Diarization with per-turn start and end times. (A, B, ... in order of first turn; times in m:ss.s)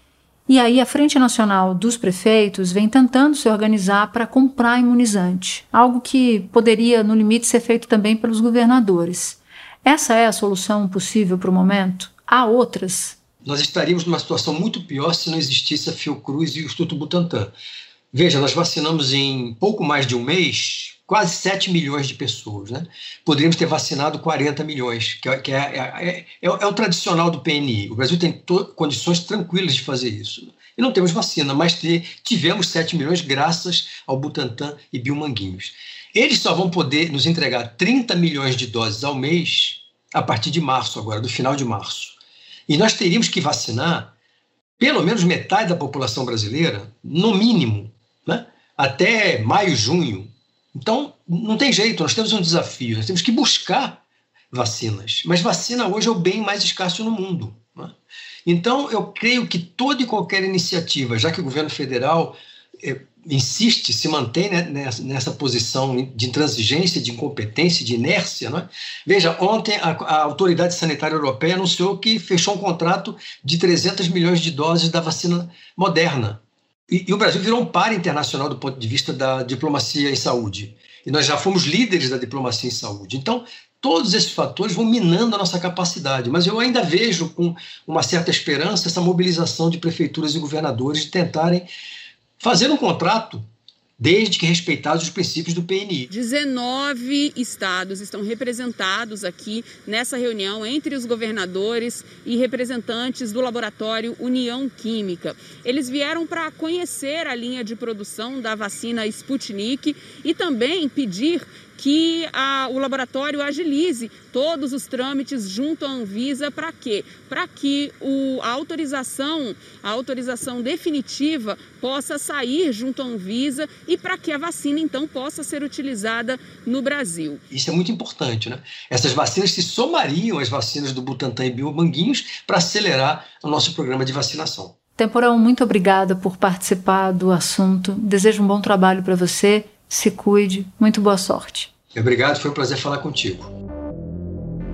0:00.5-0:13.2 A
0:13.4-0:17.5 B
0:18.1-0:44.1 B
0:44.8-0:54.0 B
0:54.5-1:31.7 B
1:32.4-1:33.5 B
1:34.0-1:36.1 B
1:36.1-2:07.4 C
2:07.5-2:14.7 B
2:15.0-2:21.7 A
2:21.9-2:23.5 B